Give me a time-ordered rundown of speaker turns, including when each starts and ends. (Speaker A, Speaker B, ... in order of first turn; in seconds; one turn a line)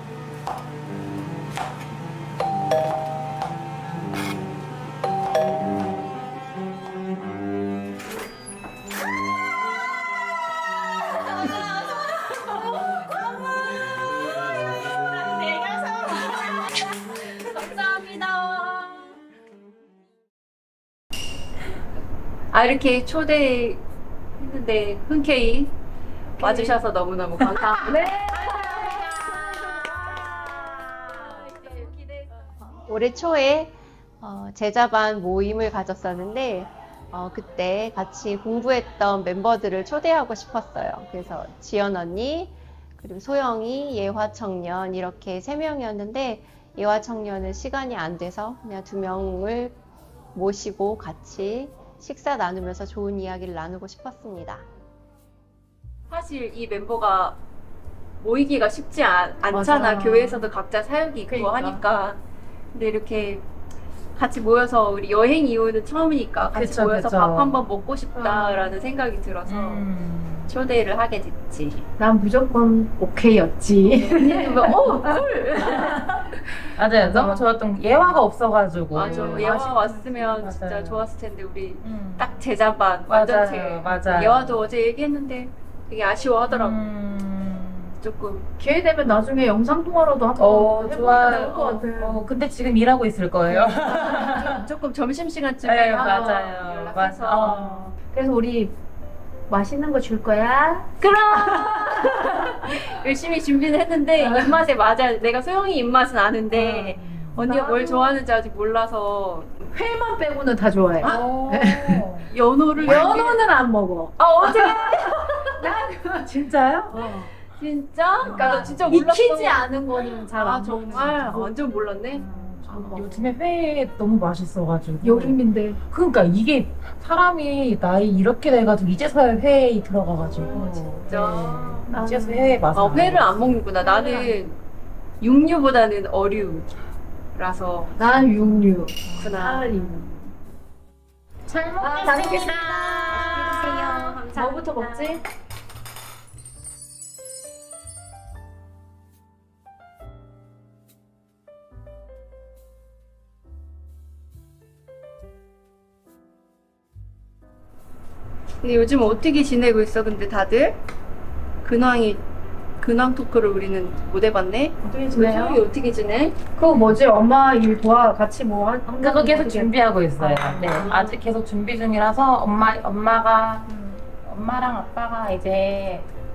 Speaker A: 11.4-12.6
Speaker B: 14.9-16.4
Speaker A: 17.3-19.0
Speaker A: 22.5-23.8
Speaker A: 24.4-25.7
Speaker C: 26.4-26.8
Speaker A: 26.4-28.1
Speaker C: 27.7-30.2
Speaker B: 28.3-31.4
Speaker C: 31.3-32.3
Speaker D: 32.9-33.7
Speaker D: 34.3-49.7
Speaker D: 50.4-54.6
Speaker A: 56.1-57.4
Speaker A: 58.2-62.2
Speaker C: 59.5-60.5
Speaker C: 61.3-61.8
Speaker A: 62.7-63.4
Speaker A: 64.2-69.9
Speaker B: 66.5-67.6
Speaker B: 68.2-68.6
Speaker C: 68.3-68.7
Speaker B: 69.5-70.5
Speaker A: 70.5-71.9
Speaker C: 72.0-75.1
Speaker A: 73.9-76.0
Speaker B: 75.6-81.1
Speaker C: 77.0-77.5
Speaker A: 78.9-86.9
Speaker C: 79.0-80.4
Speaker B: 81.8-82.4
Speaker B: 83.1-84.7
Speaker B: 86.5-88.0
Speaker A: 88.0-88.5
Speaker C: 88.6-92.3
Speaker B: 90.4-94.7
Speaker A: 91.2-91.9
Speaker C: 93.5-93.7
Speaker A: 93.8-97.7
Speaker B: 95.6-97.9
Speaker C: 96.0-96.5
Speaker C: 97.4-98.8
Speaker C: 99.5-102.8
Speaker A: 101.0-109.6
Speaker C: 104.2-104.7
Speaker B: 106.5-107.5
Speaker C: 107.5-108.2
Speaker C: 109.7-112.1
Speaker A: 111.0-111.3
Speaker B: 111.0-113.2
Speaker A: 112.3-113.4
Speaker C: 112.8-116.3
Speaker A: 114.2-115.9
Speaker B: 116.2-116.9
Speaker C: 116.9-117.3
Speaker A: 116.9-123.1
Speaker B: 118.2-119.0
Speaker C: 118.3-121.5
Speaker B: 120.7-121.1
Speaker C: 122.1-123.2
Speaker B: 122.7-125.4
Speaker C: 125.0-125.8
Speaker B: 125.9-133.5
Speaker A: 130.5-131.9
Speaker C: 131.9-132.6
Speaker A: 132.7-134.6
Speaker C: 133.8-134.4
Speaker A: 135.2-136.7
Speaker A: 137.3-138.0
Speaker C: 138.0-140.3
Speaker B: 138.4-139.4
Speaker A: 139.1-139.8
Speaker B: 141.5-144.2
Speaker C: 141.8-142.7
Speaker A: 142.8-145.2
Speaker C: 144.3-145.2
Speaker A: 158.6-160.8
Speaker A: 161.6-162.2
Speaker A: 162.8-166.4
Speaker C: 164.8-165.6
Speaker C: 166.6-171.0
Speaker B: 166.7-167.0
Speaker B: 169.0-173.7
Speaker A: 170.8-171.2
Speaker C: 173.7-174.0
Speaker B: 174.2-176.1